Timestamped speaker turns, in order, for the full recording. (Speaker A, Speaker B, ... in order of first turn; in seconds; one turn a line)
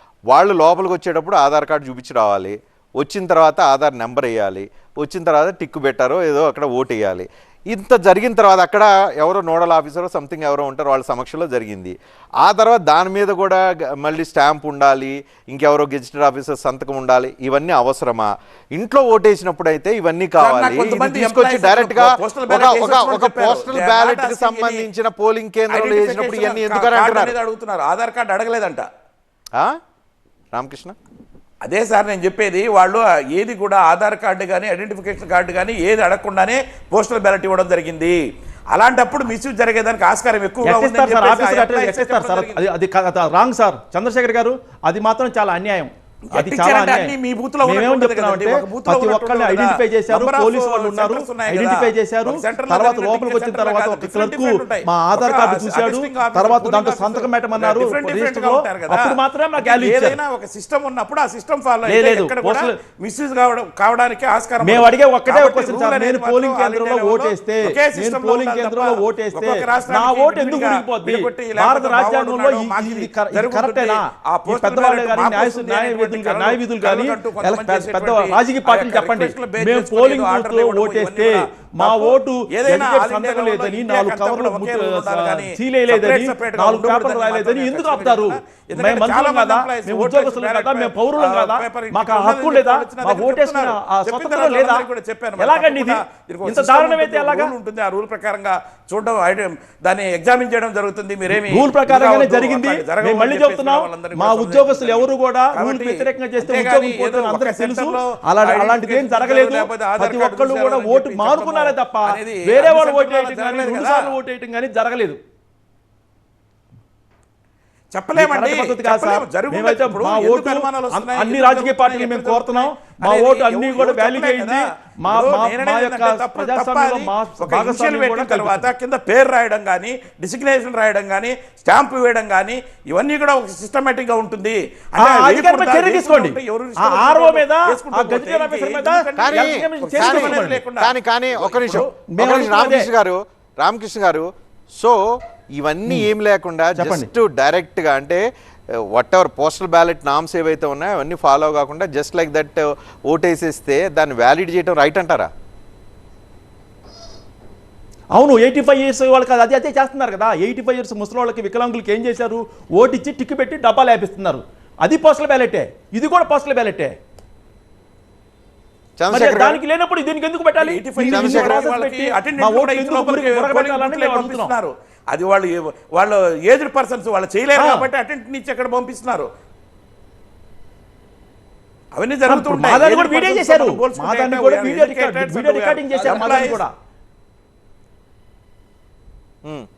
Speaker A: 0.3-27.3
Speaker B: 20.4-24.9
Speaker B: 25.7-28.9
Speaker A: 30.5-30.9
Speaker B: 31.6-38.2
Speaker B: 38.7-42.6
Speaker C: 40.6-60.2
Speaker B: 46.3-114.2
Speaker C: 61.8-62.8
Speaker C: 64.6-94.9
Speaker C: 95.4-97.5
Speaker C: 101.3-115.2
Speaker B: 117.9-141.9
Speaker C: 118.1-128.7
Speaker C: 135.0-140.6
Speaker A: 139.2-145.0
Speaker C: 141.7-142.9
Speaker A: 145.6-148.2
Speaker C: 146.7-147.1
Speaker A: 148.9-155.3
Speaker C: 158.2-166.9
Speaker A: 169.0-169.6
Speaker C: 169.1-174.5
Speaker B: 170.6-179.3
Speaker A: 171.1-171.6
Speaker C: 177.6-177.9
Speaker B: 181.9-186.6
Speaker C: 182.3-186.7